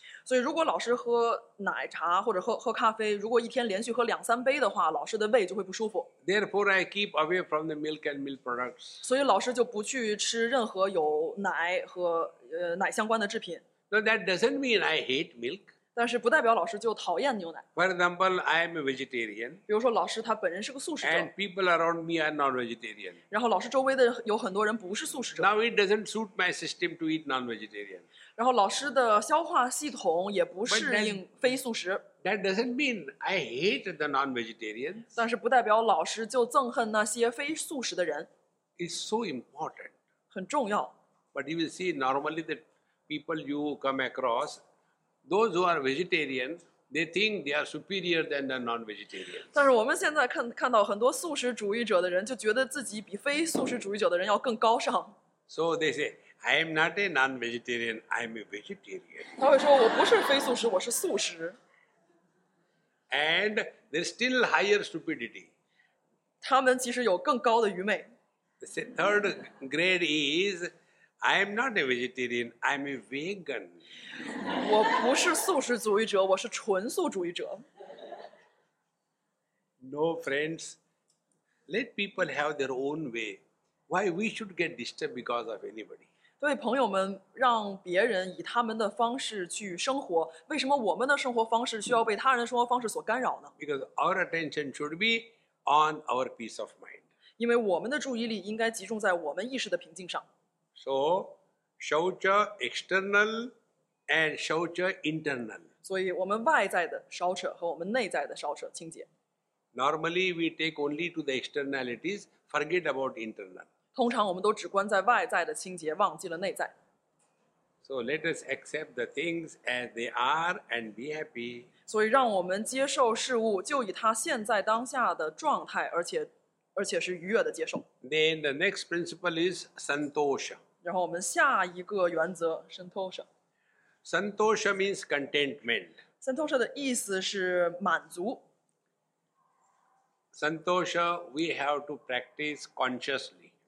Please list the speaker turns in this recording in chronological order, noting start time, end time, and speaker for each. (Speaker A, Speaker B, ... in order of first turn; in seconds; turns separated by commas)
Speaker A: 0.2-6.1, Speaker B: 6.2-9.0, Speaker A: 9.0-13.6, Speaker B: 13.9-15.7, Speaker A: 15.9-17.6, Speaker B: 17.8-19.6, Speaker A: 19.7-21.3, Speaker B: 21.0-23.2, Speaker A: 23.3-25.5, Speaker B: 25.4-28.1, Speaker A: 28.4-32.0, Speaker B: 30.7-31.2, Speaker B: 32.2-35.1, Speaker A: 35.1-38.3, Speaker B: 38.8-40.0, Speaker A: 40.3-40.9, Speaker B: 41.3-44.6, Speaker B: 45.3-49.5, Speaker A: 49.5-55.1, Speaker B: 55.5-59.3, Speaker A: 59.4-61.6, Speaker B: 63.1-65.5, Speaker A: 66.4-68.1, Speaker B: 68.6-70.7, Speaker B: 71.2-73.8, Speaker A: 74.5-77.6, Speaker B: 79.8-80.8, Speaker B: 81.7-86.1, Speaker A: 86.4-93.5, Speaker B: 93.6-97.0, Speaker A: 97.4-100.2, Speaker B: 100.8-103.5, Speaker B: 104.1-105.7, Speaker A: 105.8-109.1, Speaker B: 109.8-113.7, Speaker A: 114.0-116.7, Speaker B: 117.8-121.7, Speaker A: 121.9-127.8, Speaker B: 128.0-130.6, Speaker A: 130.8-133.2, Speaker B: 134.0-136.0, Speaker A: 136.2-138.4, Speaker B: 140.3-143.5